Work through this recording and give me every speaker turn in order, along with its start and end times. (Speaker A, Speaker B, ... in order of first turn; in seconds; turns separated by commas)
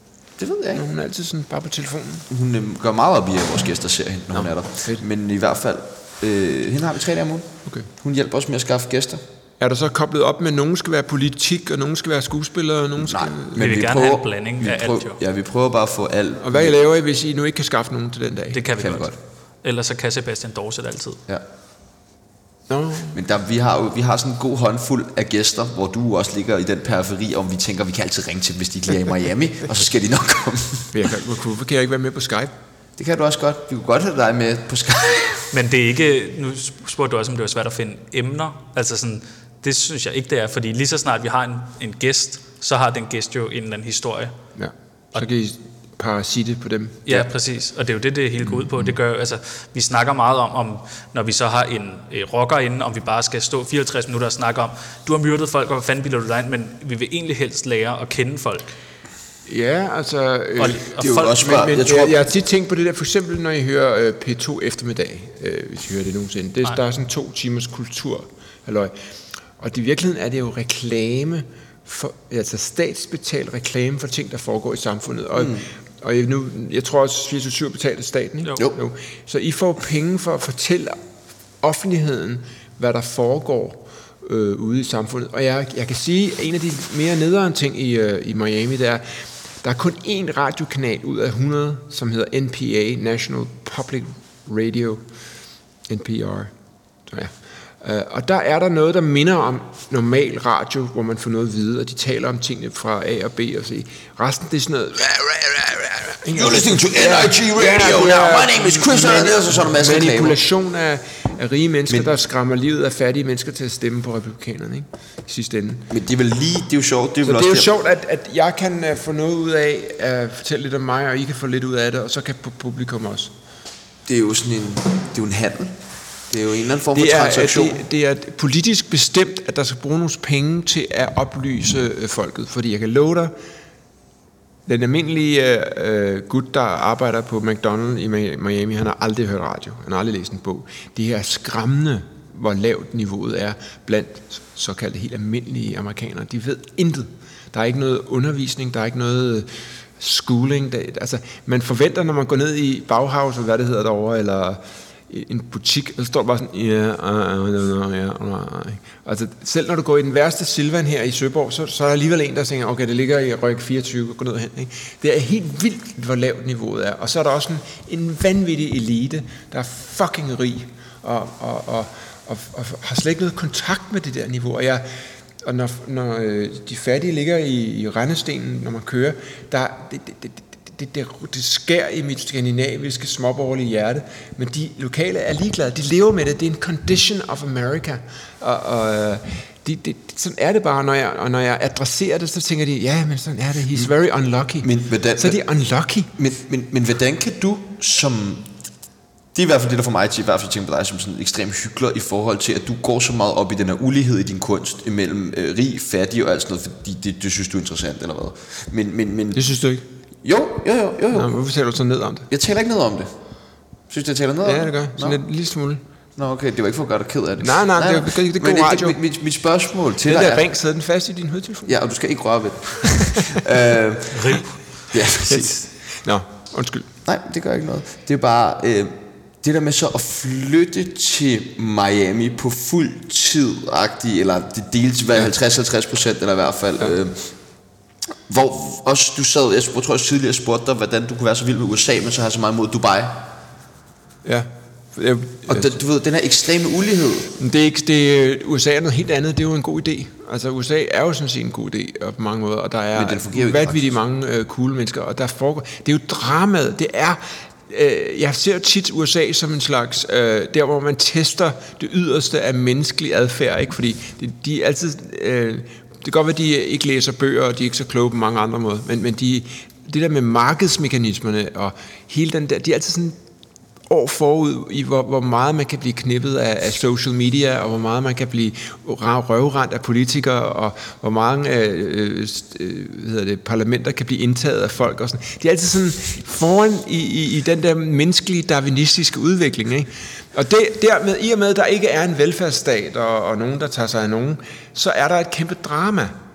Speaker A: 0.4-0.8, Speaker B: 0.8-2.3, Speaker A: 2.3-9.2, Speaker B: 4.3-5.0, Speaker B: 9.6-13.6, Speaker A: 13.0-16.7, Speaker C: 13.6-15.2, Speaker B: 16.4-18.6, Speaker C: 18.5-19.1, Speaker A: 18.8-19.2, Speaker C: 19.6-21.2, Speaker B: 22.7-23.2, Speaker A: 23.1-30.9, Speaker B: 30.9-32.5, Speaker A: 33.0-35.5, Speaker C: 35.5-44.3, Speaker B: 44.6-47.2, Speaker C: 47.1-58.8, Speaker B: 48.5-48.9, Speaker B: 59.5-68.9, Speaker C: 60.6-61.7, Speaker A: 61.0-62.2, Speaker B: 69.6-81.0, Speaker A: 75.4-75.7, Speaker B: 81.6-95.0, Speaker B: 95.9-96.5, Speaker B: 97.1-115.9, Speaker A: 105.9-110.4, Speaker A: 115.9-117.7, Speaker B: 117.2-123.3, Speaker A: 124.1-125.8, Speaker A: 126.3-127.8, Speaker B: 126.9-133.3, Speaker B: 134.7-174.8, Speaker B: 175.4-196.1, Speaker A: 194.6-195.4, Speaker A: 196.2-198.5, Speaker A: 199.3-209.5, Speaker B: 209.3-209.9, Speaker A: 210.2-211.4, Speaker B: 211.1-212.3, Speaker A: 212.3-213.1, Speaker A: 213.9-215.2, Speaker B: 214.4-215.8, Speaker A: 216.2-220.4, Speaker B: 217.4-219.0, Speaker B: 220.1-221.8, Speaker A: 221.7-225.6, Speaker C: 224.2-224.4, Speaker B: 225.2-226.9, Speaker A: 227.1-237.3, Speaker A: 238.3-243.2, Speaker B: 244.2-245.8, Speaker A: 245.5-247.4, Speaker B: 247.4-273.2, Speaker A: 252.9-253.9, Speaker B: 273.9-296.2